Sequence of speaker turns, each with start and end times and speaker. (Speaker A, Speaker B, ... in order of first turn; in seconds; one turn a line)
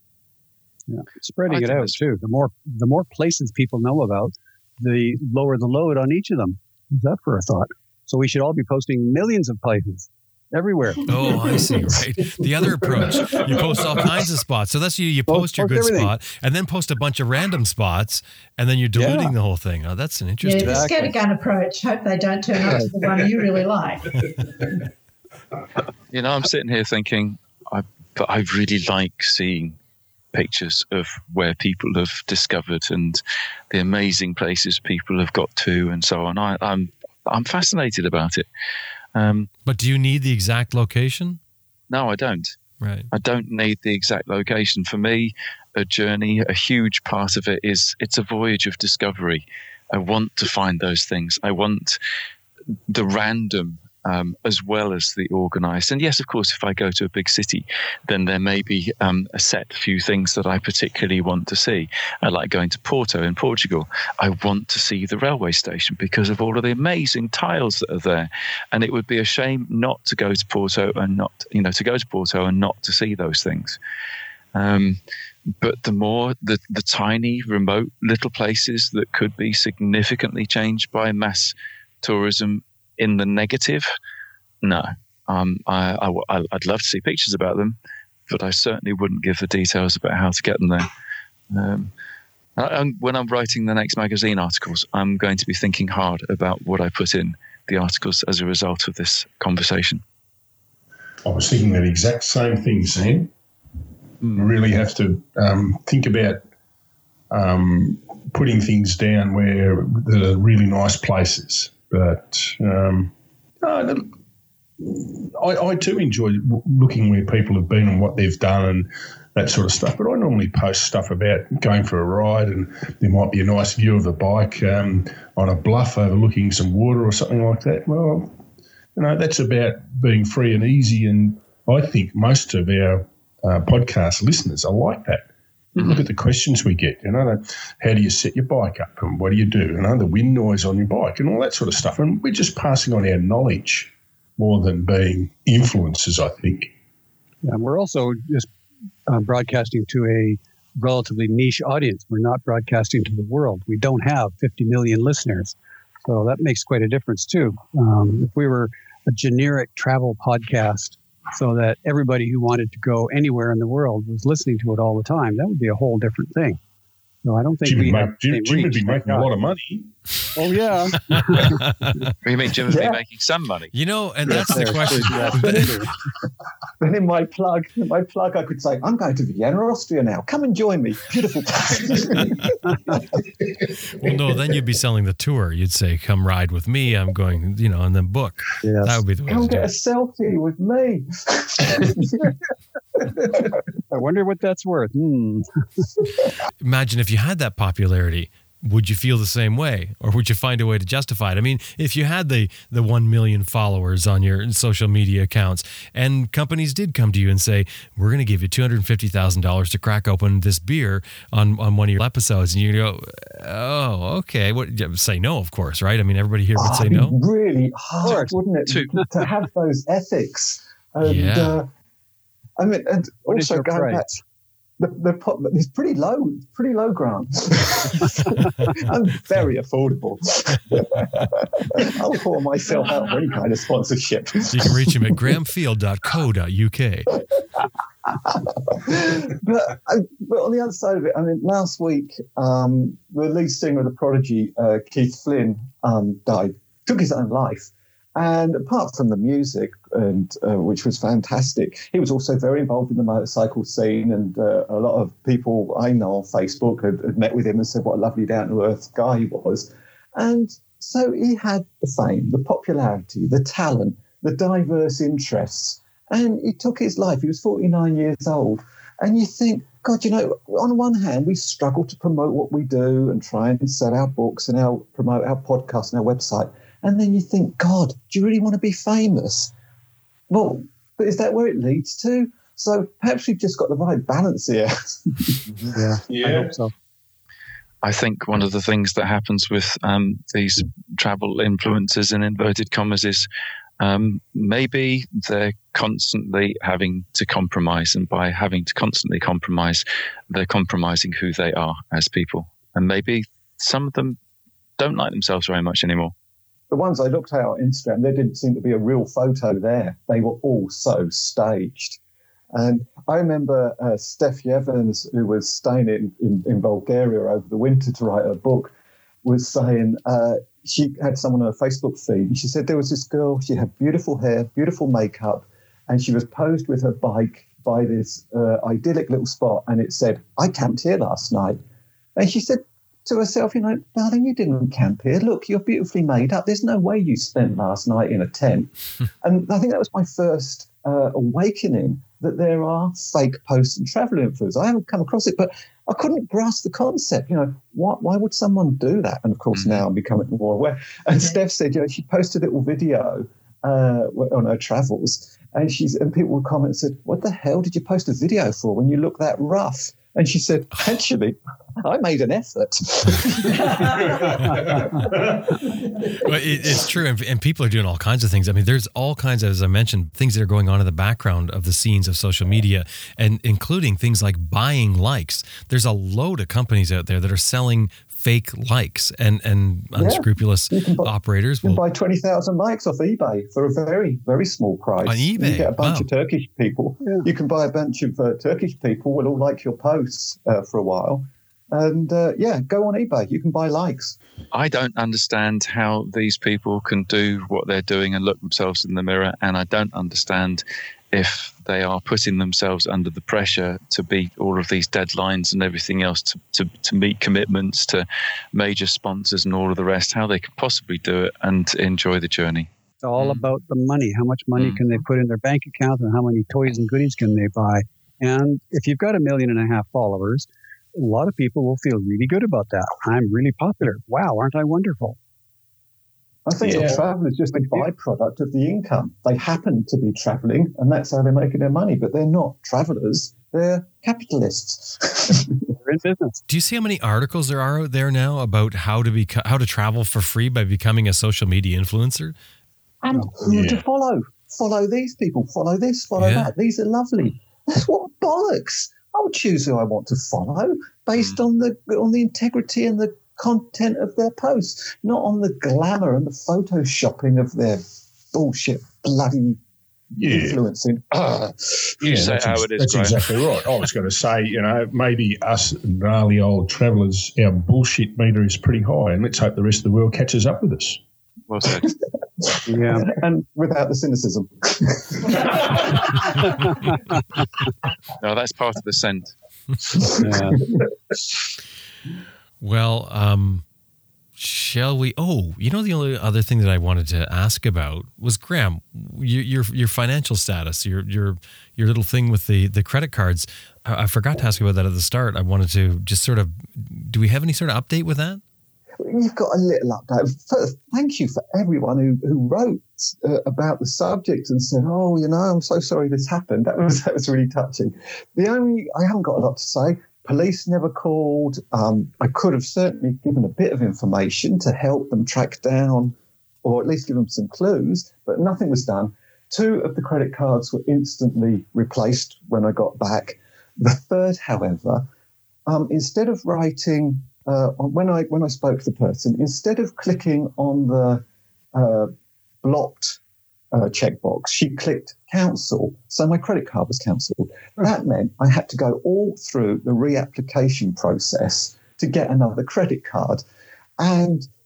Speaker A: 0.9-11.1
Speaker B: 1.5-2.0
Speaker C: 11.1-21.0
Speaker D: 13.2-14.2
Speaker A: 15.3-16.1
Speaker A: 18.9-19.3
Speaker E: 20.4-24.8
Speaker A: 20.6-21.2
Speaker B: 26.1-29.8
Speaker B: 30.3-38.5
Speaker B: 39.1-39.5
Speaker C: 39.6-41.4
Speaker B: 41.9-42.5
Speaker C: 42.8-43.1
Speaker B: 43.1-52.0
Speaker B: 52.9-73.8
Speaker B: 74.5-75.0
Speaker B: 75.6-83.9
Speaker B: 84.6-87.8
Speaker B: 88.3-90.9
Speaker B: 91.5-91.9
Speaker B: 92.6-100.0
Speaker D: 101.2-103.3
Speaker D: 104.3-106.4
Speaker D: 107.3-114.2
Speaker D: 114.8-128.3
Speaker D: 128.9-146.7
Speaker A: 147.4-148.5
Speaker A: 149.1-166.6
Speaker A: 167.2-169.6
Speaker D: 167.6-169.9
Speaker A: 170.3-171.7
Speaker C: 171.1-172.2
Speaker B: 172.2-173.7
Speaker F: 172.7-173.0
Speaker C: 173.7-175.8
Speaker A: 174.3-175.9
Speaker F: 176.8-182.5
Speaker C: 184.0-189.7
Speaker A: 188.6-189.0
Speaker F: 189.3-192.3
Speaker F: 193.3-193.6
Speaker A: 193.9-195.8
Speaker C: 196.6-217.2
Speaker F: 216.6-221.7
Speaker B: 218.0-218.9
Speaker C: 221.0-221.6
Speaker F: 222.6-224.2
Speaker A: 223.3-224.0
Speaker F: 224.8-235.2
Speaker C: 234.5-237.2
Speaker F: 238.0-279.5
Speaker F: 280.3-285.4
Speaker A: 285.7-286.7
Speaker D: 286.1-286.5
Speaker B: 287.8-293.3
Speaker B: 293.8-304.2
Speaker B: 304.8-306.1
Speaker F: 306.7-312.0
Speaker F: 312.5-331.6
Speaker F: 332.1-338.7
Speaker F: 339.2-365.2
Speaker B: 349.5-349.8
Speaker E: 351.1-351.4
Speaker E: 363.5-364.3
Speaker D: 364.1-365.5
Speaker A: 364.5-365.0
Speaker F: 366.0-366.7
Speaker C: 366.1-381.8
Speaker F: 379.9-394.2
Speaker C: 385.0-386.1
Speaker B: 394.5-413.4
Speaker A: 413.0-425.2
Speaker B: 414.6-414.8
Speaker F: 426.4-435.7
Speaker D: 426.6-427.0
Speaker A: 427.5-427.9
Speaker A: 435.8-436.4
Speaker C: 436.5-442.3
Speaker F: 443.0-459.6
Speaker D: 443.4-443.8
Speaker C: 446.2-446.5
Speaker D: 460.2-460.6
Speaker F: 460.2-462.0
Speaker B: 462.0-463.5
Speaker D: 462.0-471.0
Speaker B: 471.5-471.9
Speaker F: 472.4-476.4
Speaker A: 472.7-473.1
Speaker A: 476.4-477.0
Speaker B: 478.2-479.3
Speaker A: 480.1-480.7
Speaker C: 482.6-483.6
Speaker C: 484.4-498.4
Speaker F: 499.0-525.0
Speaker F: 525.7-533.2
Speaker F: 533.7-543.4
Speaker F: 544.0-544.5